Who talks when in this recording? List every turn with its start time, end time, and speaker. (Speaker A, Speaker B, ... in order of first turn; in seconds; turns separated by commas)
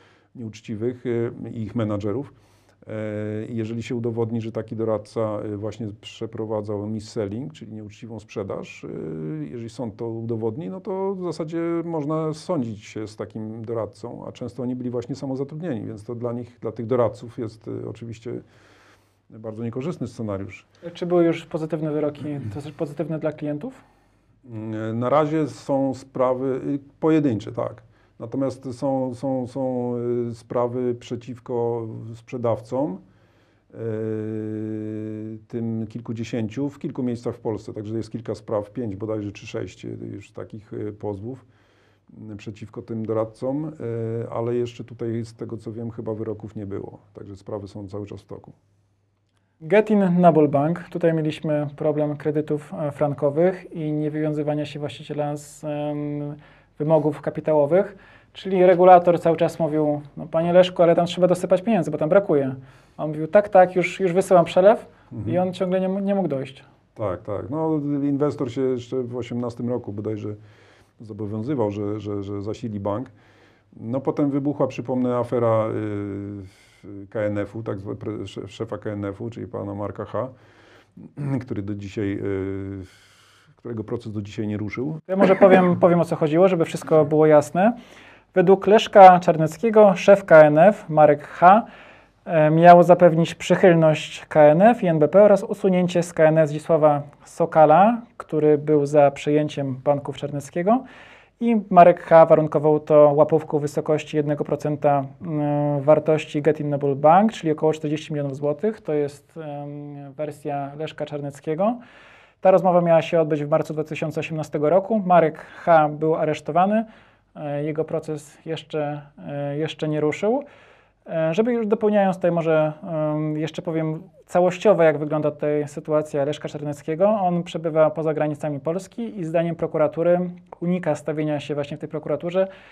Speaker A: 0.3-2.3, Speaker A: 2.8-18.4, Speaker A: 19.3-20.7, Speaker B: 20.8-23.8, Speaker A: 24.4-33.0, Speaker A: 33.7-41.4, Speaker A: 42.1-48.5, Speaker B: 49.6-66.7, Speaker A: 65.1-65.4, Speaker A: 67.0-70.4, Speaker A: 71.0-73.1, Speaker A: 73.7-80.3, Speaker A: 81.0-82.9, Speaker A: 83.6-85.2, Speaker B: 85.1-87.8, Speaker B: 88.3-91.7, Speaker B: 92.2-100.8, Speaker B: 101.4-111.8, Speaker B: 112.4-120.4, Speaker B: 121.0-132.5